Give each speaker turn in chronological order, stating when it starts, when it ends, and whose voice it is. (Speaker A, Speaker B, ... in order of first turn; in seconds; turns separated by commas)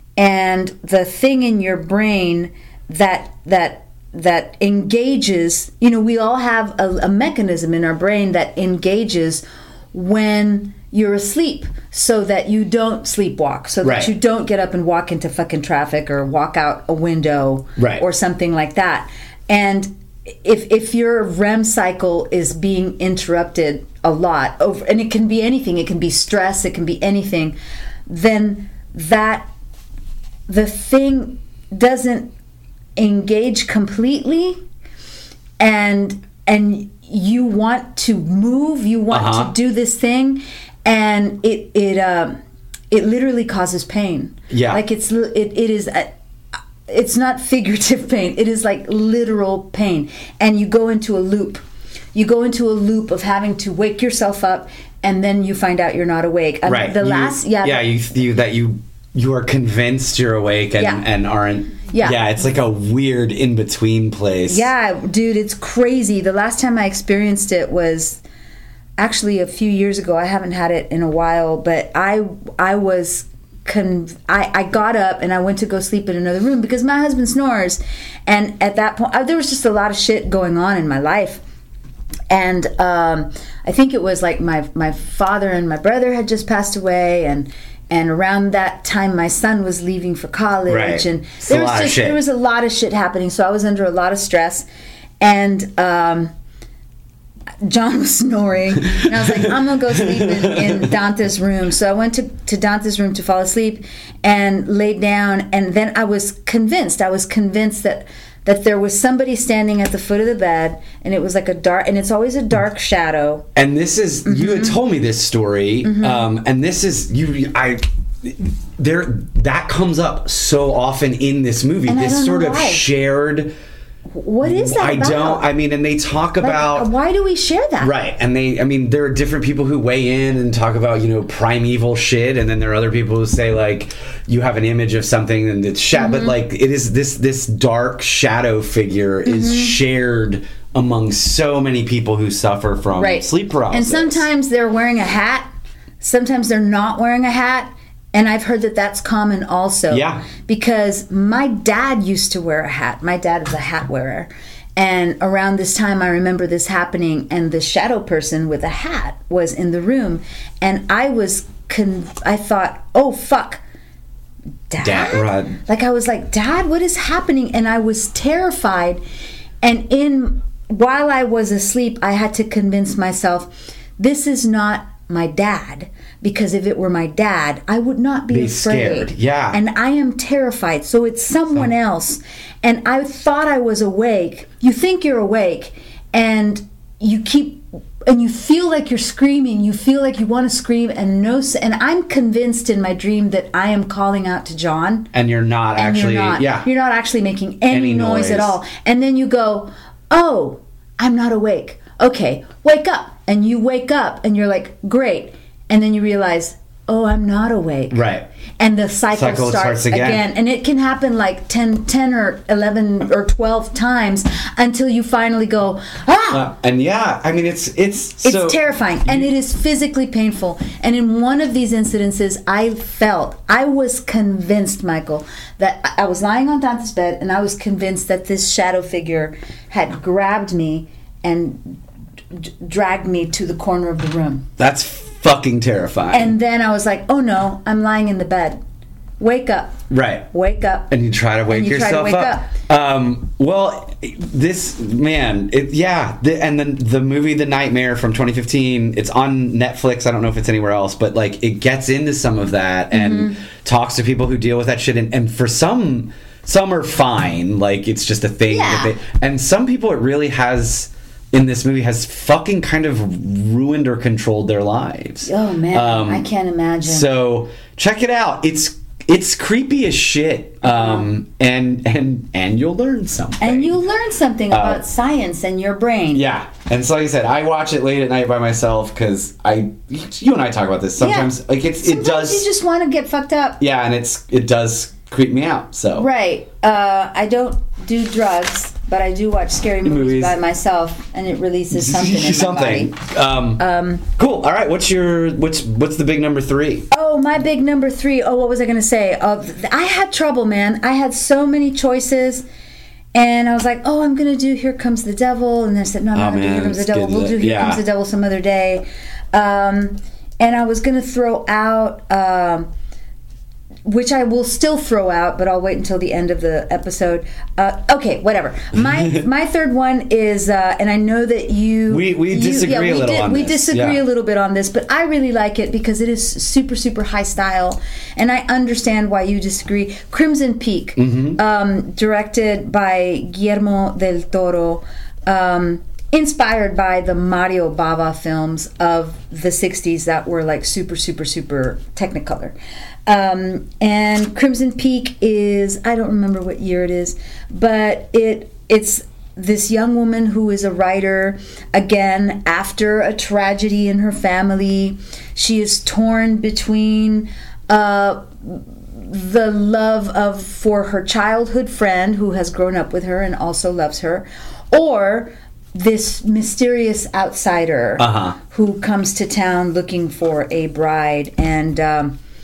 Speaker A: 0.2-29.5, Speaker B: 13.8-14.1, Speaker B: 17.8-18.0, Speaker A: 30.5-32.3, Speaker A: 33.0-34.6, Speaker A: 35.6-42.4, Speaker B: 39.1-39.5, Speaker A: 42.9-46.1, Speaker B: 44.5-44.8, Speaker A: 46.9-51.6, Speaker A: 52.1-57.8, Speaker B: 56.6-64.7, Speaker A: 60.8-61.0, Speaker A: 61.9-62.2, Speaker A: 64.5-68.2, Speaker A: 69.0-81.4, Speaker A: 82.3-94.7, Speaker B: 90.7-92.2, Speaker A: 95.2-96.3, Speaker A: 97.6-113.5, Speaker B: 98.9-99.5, Speaker B: 100.1-100.9, Speaker B: 113.5-123.5, Speaker A: 114.2-114.8, Speaker A: 115.8-116.3, Speaker A: 121.9-122.8, Speaker A: 124.1-125.4, Speaker B: 124.4-126.9, Speaker A: 126.4-128.0, Speaker B: 127.8-144.2, Speaker A: 135.9-136.3, Speaker A: 139.2-139.8, Speaker A: 143.0-163.6, Speaker B: 149.9-150.2, Speaker A: 164.7-169.0, Speaker B: 164.8-165.6, Speaker A: 169.6-195.1, Speaker B: 178.3-179.6, Speaker B: 195.1-196.7, Speaker A: 195.8-208.0, Speaker B: 197.7-198.6, Speaker B: 207.9-208.3, Speaker A: 208.6-216.4, Speaker B: 209.1-210.3, Speaker B: 216.3-219.3, Speaker A: 218.2-231.8, Speaker A: 232.3-234.5, Speaker B: 234.6-236.3, Speaker A: 236.1-238.6, Speaker A: 239.2-239.8, Speaker B: 239.9-240.3, Speaker A: 240.3-240.9, Speaker B: 240.9-266.3, Speaker A: 241.5-242.5, Speaker A: 252.9-253.4, Speaker A: 258.5-258.9, Speaker A: 265.2-267.1, Speaker B: 266.8-273.8, Speaker A: 270.6-271.1, Speaker A: 273.4-276.2, Speaker B: 274.5-274.8, Speaker B: 276.1-282.4, Speaker A: 281.0-281.3, Speaker A: 281.8-283.6, Speaker B: 283.6-286.1, Speaker A: 285.9-292.9, Speaker B: 289.8-290.4, Speaker B: 291.7-293.6, Speaker A: 293.6-294.0, Speaker B: 294.2-296.9, Speaker A: 296.9-302.4, Speaker A: 303.1-312.7, Speaker B: 306.1-307.8, Speaker A: 313.8-342.5, Speaker B: 318.8-319.2, Speaker B: 321.9-324.0, Speaker B: 331.0-331.4, Speaker A: 343.1-372.2, Speaker B: 368.0-368.4